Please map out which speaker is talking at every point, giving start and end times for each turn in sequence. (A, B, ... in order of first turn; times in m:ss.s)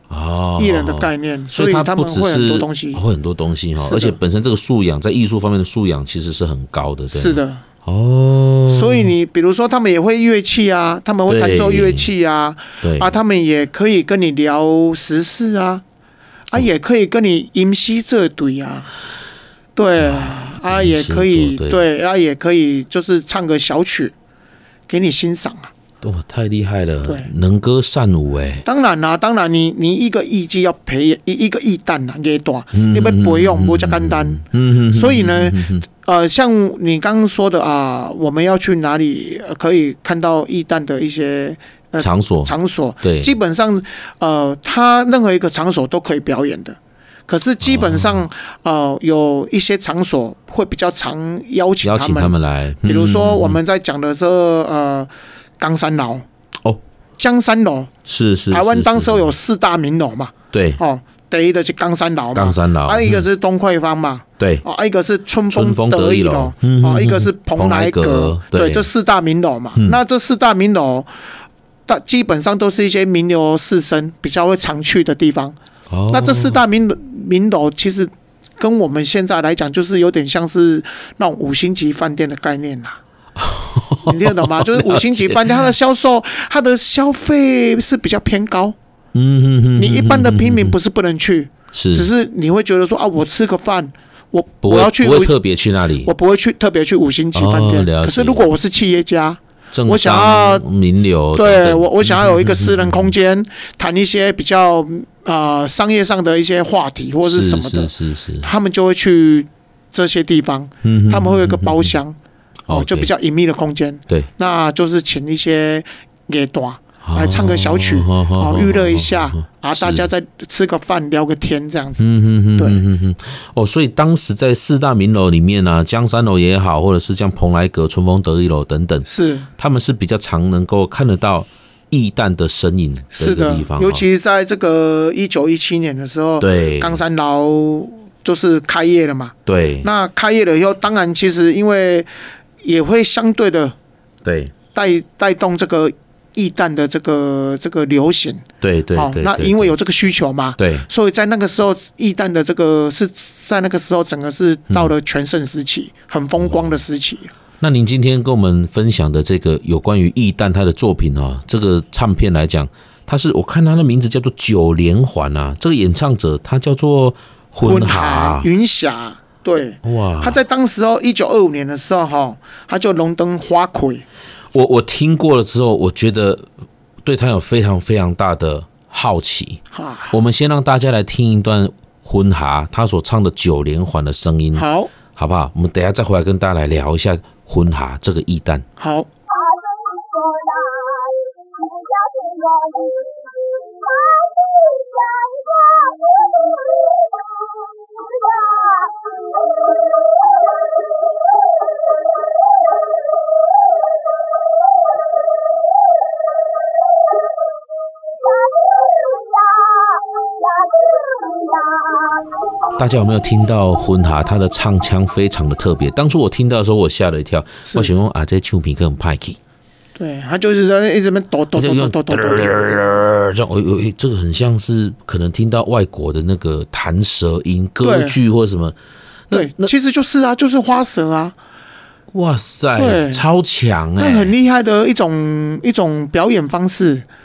0:00.1-0:09.1 A
0:00.6-0:03.0 B
0:03.8-0:04.2 B
0:07.1-0:07.6 B
0:08.7-0:15.8 B
0:11.3-0:12.1 A
0:12.8-0:13.2 A
0:16.5-0:18.9 B
0:19.8-0:24.1 B
0:20.0-0:21.8 A
0:24.9-0:25.7 B
0:26.0-0:28.7 A
0:27.0-0:27.3 B
0:28.6-0:56.2 B
0:32.7-0:35.8 A
0:42.0-0:43.4 A
0:47.6-0:48.2 A
0:51.8-0:53.6 A
0:57.2-0:57.9 B
0:58.1-0:59.3 A
0:58.5-1:11.1 B
1:00.5-1:00.8 A
1:02.3-1:03.2 A
1:04.4-1:04.6 A
1:05.5-1:08.9 A
1:11.9-1:15.6 B
1:15.9-1:16.6 A
1:16.1-1:23.0 B
1:23.4-1:25.4 A
1:24.0-1:28.8 B
1:29.1-1:30.8 A
1:29.8-1:35.4 B
1:31.7-1:32.1 A
1:34.6-1:36.1 A
1:36.0-1:40.6 B
1:37.3-1:38.5 A
1:39.7-1:43.1 A
1:41.3-1:52.2 B
1:47.2-1:48.5 A
1:50.8-1:51.9 A
1:52.7-1:53.1 A
1:52.7-2:02.8 B
1:57.0-2:00.1 A
2:02.0-2:14.0 A
2:09.0-2:09.5 B
2:13.1-2:22.1 B
2:16.4-2:17.0 A
2:19.5-2:19.9 A
2:22.6-2:23.7 B
2:24.2-2:24.5 A
2:24.7-2:37.3 B
2:28.6-2:29.7 A
2:30.6-2:30.9 A
2:37.6-2:48.5 A
2:47.6-2:54.0 B
2:49.8-2:50.4 A
2:54.5-2:56.5 A
2:57.0-3:08.6 A
2:59.7-3:00.2 B
3:04.5-3:04.9 B
3:08.8-3:09.1 B
3:32.8-3:39.4 A
3:37.6-3:37.9 B
3:40.0-3:42.8 B
3:41.6-3:48.8 A
3:47.8-3:48.2 B
3:49.3-3:49.7 A
3:49.3-3:51.4 B
3:52.1-3:54.3 A
3:52.8-3:53.3 B
3:54.0-3:57.0 B